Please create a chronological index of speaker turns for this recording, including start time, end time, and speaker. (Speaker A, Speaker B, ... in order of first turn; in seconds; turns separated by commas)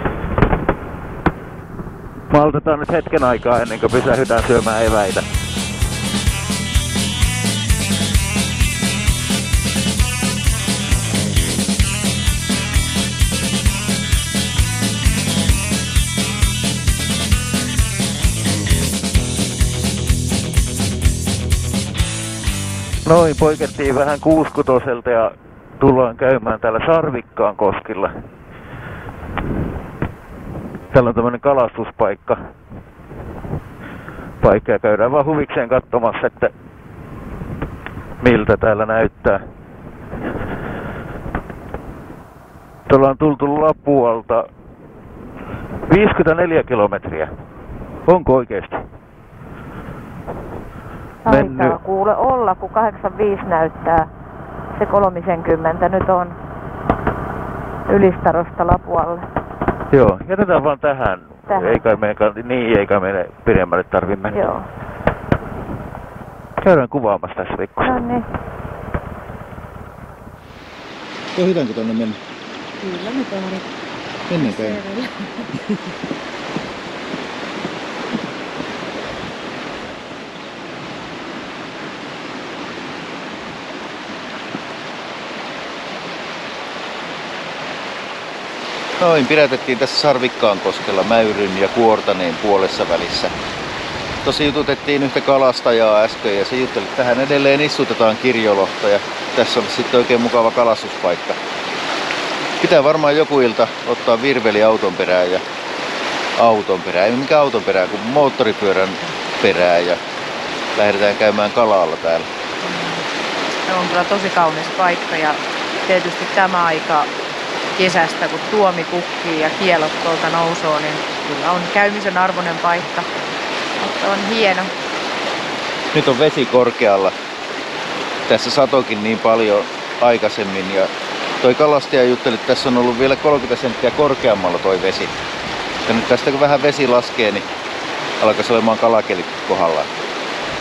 Speaker A: 2.3-5.2, Speaker A: 23.0-28.1, Speaker A: 30.9-32.4, Speaker A: 34.4-36.5, Speaker A: 38.2-39.4, Speaker A: 42.9-44.4, Speaker A: 45.9-47.3, Speaker A: 48.0-48.8, Speaker B: 51.2-54.1, Speaker A: 51.2-51.8, Speaker B: 54.7-56.4, Speaker B: 57.9-59.2, Speaker A: 59.9-64.4, Speaker B: 61.5-61.9, Speaker B: 64.3-64.7, Speaker A: 66.6-68.0, Speaker B: 67.8-68.3, Speaker C: 71.3-72.2, Speaker D: 72.8-73.7, Speaker C: 74.3-74.8, Speaker D: 74.3-75.9, Speaker C: 89.0-93.3, Speaker C: 94.2-101.4, Speaker C: 102.6-105.4, Speaker C: 106.4-110.0, Speaker C: 110.8-112.3, Speaker D: 112.7-113.0, Speaker D: 113.7-117.1, Speaker D: 117.8-123.1, Speaker D: 123.8-124.7, Speaker C: 125.9-127.1, Speaker C: 128.3-130.9, Speaker C: 131.4-135.1, Speaker C: 135.8-137.4, Speaker C: 138.2-139.9